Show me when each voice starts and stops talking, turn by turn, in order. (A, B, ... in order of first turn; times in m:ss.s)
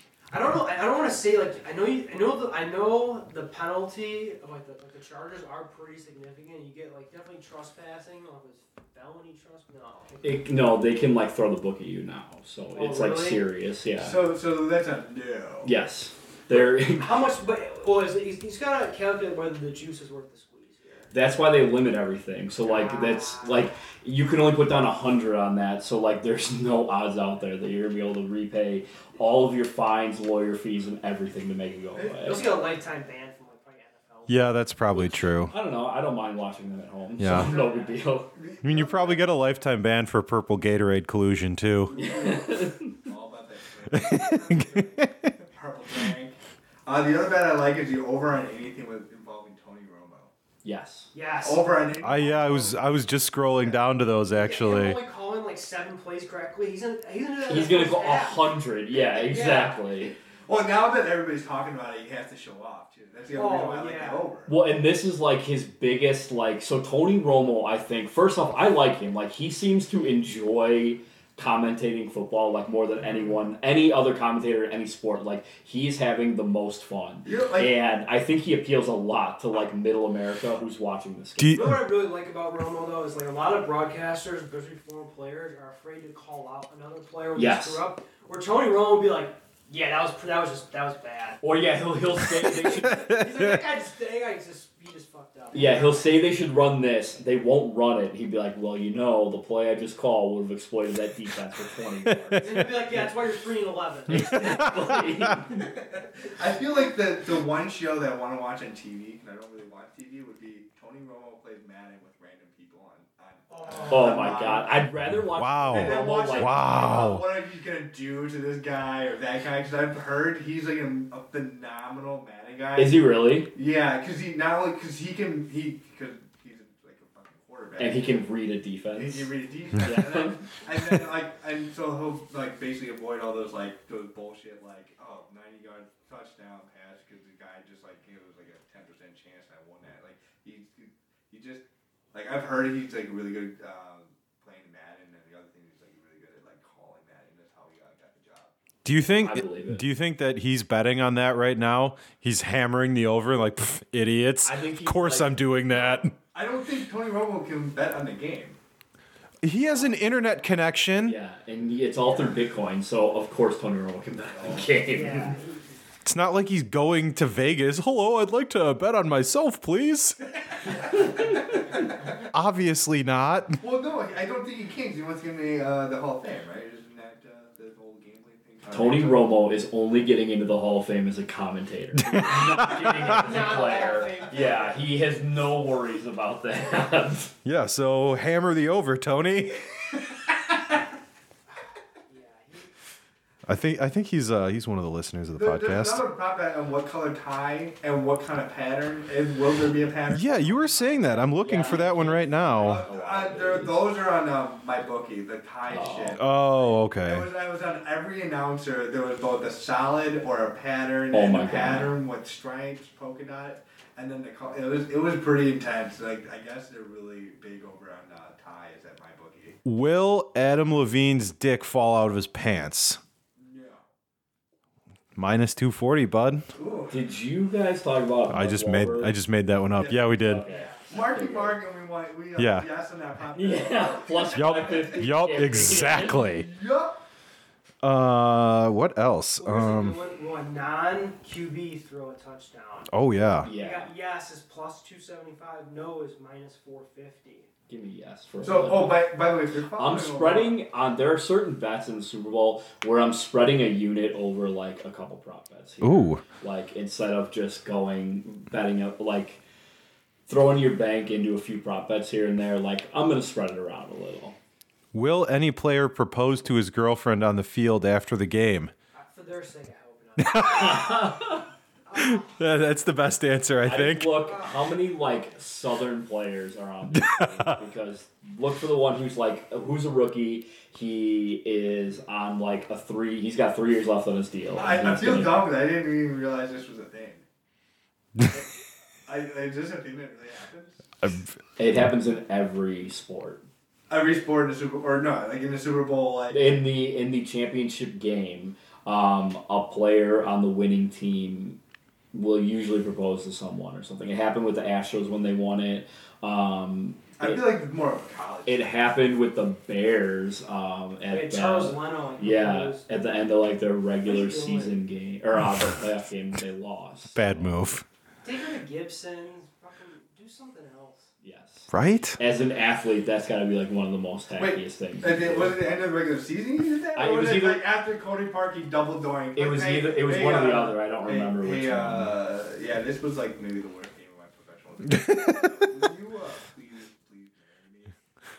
0:00.3-0:10.3 A
0:10.2-0:14.2 B
0:12.7-0:13.5 A
0:14.0-0:15.7 C
0:15.6-0:17.2 B
0:16.9-0:21.1 A
0:21.1-0:32.5 B
0:22.6-0:23.7 A
0:32.0-0:32.6 C
0:32.2-0:34.5 A
0:34.3-0:35.5 D
0:35.0-0:38.3 B
0:37.2-0:37.5 D
0:37.3-0:38.0 A
0:38.3-0:39.3 C
0:38.6-0:42.0 D
0:41.9-0:50.3 C
0:42.0-0:42.9 B
0:43.9-0:45.3 D
0:44.5-0:44.8 A
0:50.6-0:51.1 B
0:51.1-0:51.8 A
0:51.4-0:52.8 C
0:52.0-0:55.0 D
0:54.3-0:58.6 A
0:57.4-1:00.1 B
0:59.1-1:00.1 A
1:00.5-1:04.5 C
1:03.3-1:04.3 A
1:04.5-1:21.8 B
1:17.2-1:17.7 C
1:21.4-1:21.8 D
1:21.5-1:31.4 A
1:27.4-1:27.8 B
1:31.4-1:33.2 B
1:32.5-1:36.1 A
1:35.5-1:43.1 B
1:42.4-1:45.0 A
1:44.1-1:45.7 B
1:44.2-1:44.7 D
1:45.8-1:54.8 C
1:53.5-1:54.5 A
1:53.9-1:56.6 B
1:55.2-1:57.2 D
1:55.7-2:03.0 C
2:02.8-2:03.5 B
2:03.5-2:08.3 C
2:07.8-2:10.4 B
2:09.0-2:28.5 C
2:28.8-2:36.1 D
2:29.1-2:29.8 B
2:34.4-2:35.5 B
2:36.3-2:38.6 C
2:39.4-2:41.2 D
2:39.7-2:40.0 A
2:41.0-2:45.4 B
2:44.4-2:44.7 C
2:44.9-2:45.7 A
2:46.0-2:50.2 D
2:52.3-2:53.6 D
2:53.6-2:59.3 C
2:58.7-3:07.3 B
3:02.0-3:03.1 D
3:02.6-3:04.8 A
3:07.4-3:09.6 D
3:12.1-3:12.7 A
3:13.5-3:16.0 D
3:15.3-3:20.7 C
3:20.1-3:22.8 D
3:20.6-3:21.8 A
3:21.4-3:24.0 B
3:22.6-3:39.6 C
3:25.7-3:26.2 B
3:26.2-3:27.3 D
3:31.1-3:32.0 B
3:39.6-3:43.0 D
3:43.4-3:43.9 C
3:45.2-3:46.5 D
3:46.6-3:47.0 C
3:46.9-3:49.2 B
3:48.3-3:50.4 D
3:49.8-3:50.2 C
3:50.2-3:51.6 B
3:50.4-3:51.0 A
3:50.9-3:57.0 C
3:52.4-3:52.7 D
3:53.3-3:56.3 B
3:54.4-3:56.5 D
3:57.8-4:00.0 D
3:59.4-4:02.9 A
4:02.9-4:03.5 D
4:03.4-4:07.5 A
4:03.4-4:03.9 B
4:07.7-4:09.1 B
4:08.4-4:10.6 C
4:09.7-4:19.4 B
4:15.8-4:16.2 D
4:20.3-4:24.4 B
4:24.9-4:28.7 D
4:29.0-4:31.1 A
4:30.2-4:31.0 D
4:30.4-4:31.4 B
4:31.9-4:32.4 A
4:32.0-4:34.2 D
4:33.6-4:45.4 B
4:34.2-4:34.6 A
4:36.9-4:37.6 D
4:44.6-4:47.2 C
4:48.2-4:48.5 C
4:49.1-4:50.8 C
4:51.0-4:51.3 D
4:51.6-4:53.4 B
4:53.9-4:56.6 C
4:56.3-5:01.6 B
5:02.1-5:07.4 B
5:07.2-5:08.7 C
5:08.5-5:17.6 B
5:11.1-5:12.9 A
5:14.0-5:14.7 A
5:17.1-5:17.8 D
5:18.2-5:21.1 A
5:21.2-5:25.6 B
5:21.7-5:22.2 D
5:24.4-5:38.0 C
5:27.0-5:27.6 B
5:29.4-5:32.2 B
5:34.9-5:35.5 D